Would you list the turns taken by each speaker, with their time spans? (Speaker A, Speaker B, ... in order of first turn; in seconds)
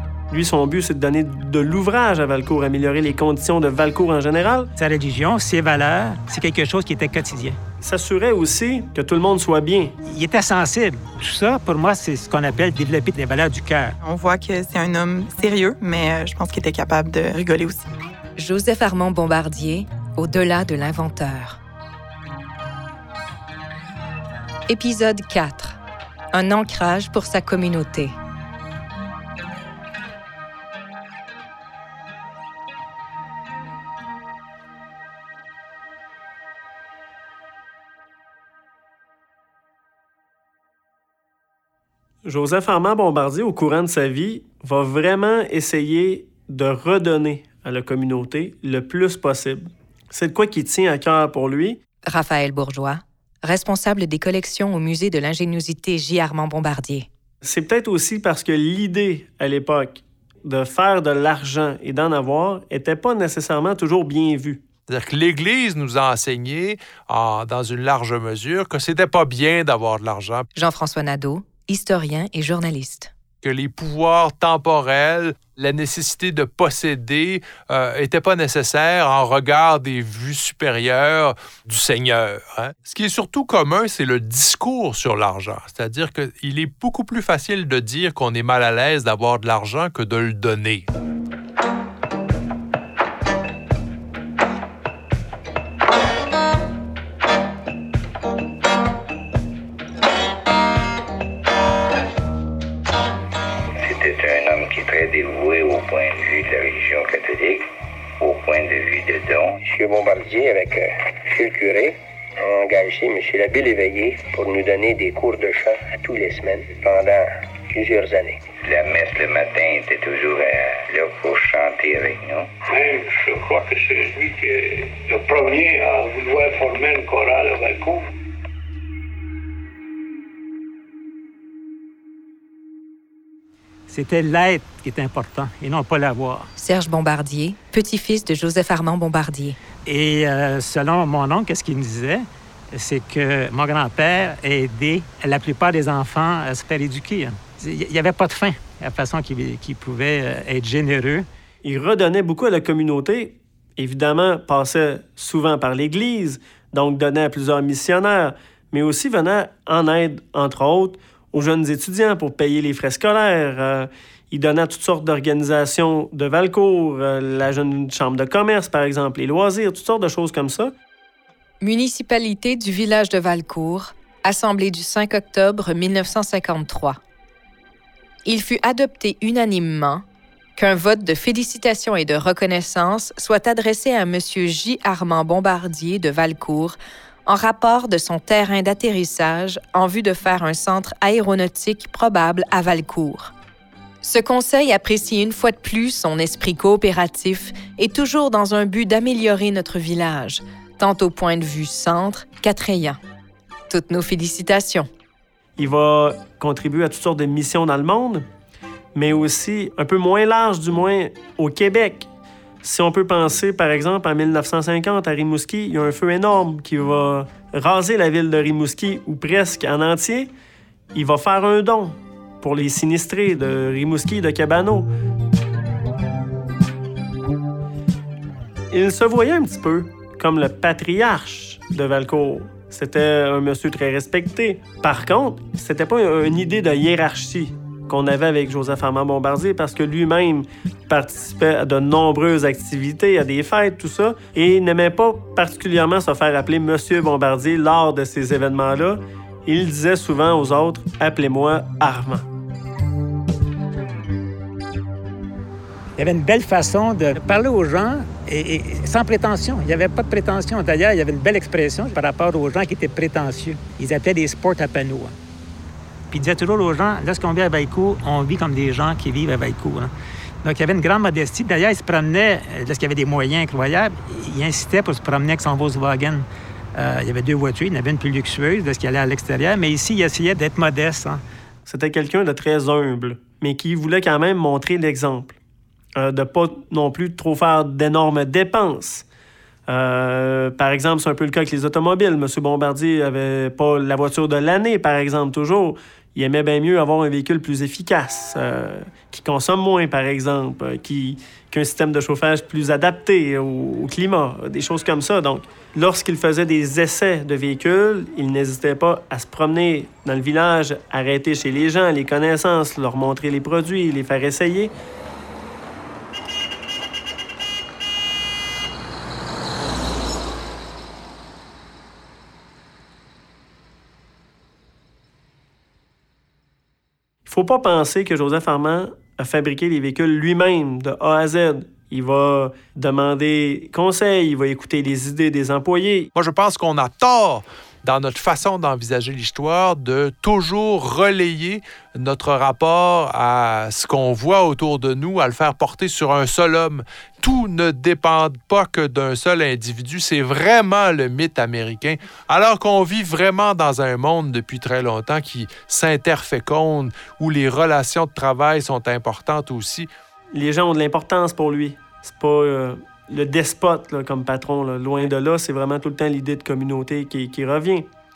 Speaker A: 0.3-4.7, 7.8-9.9, 42.2-51.8, 57.4-64.6, 151.6-170.7, 205.6-208.3, 208.9-212.1, 212.6-220.3, 220.9-224.9, 228.7-252.3, 281.7-285.4, 286.0-289.1, 289.7-314.7, 327.3-336.1, 360.4-367.9
Speaker B: 4.8-7.6, 10.1-14.0, 133.9-136.5, 139.9-151.3, 256.0-265.1, 266.1-269.9, 270.4-281.2
Speaker C: 14.0-17.9
Speaker D: 18.4-21.6, 24.7-25.8, 26.3-28.2, 52.1-57.1, 70.5-73.1, 136.6-139.6, 171.6-177.0, 178.2-180.1, 180.6-193.3, 194.0-203.0, 203.7-204.9
Speaker E: 64.9-70.5, 73.4-90.9, 336.1-359.9
Speaker F: 103.8-107.7, 108.2-109.7, 118.6-122.5
Speaker G: 109.7-118.5
Speaker H: 122.7-128.1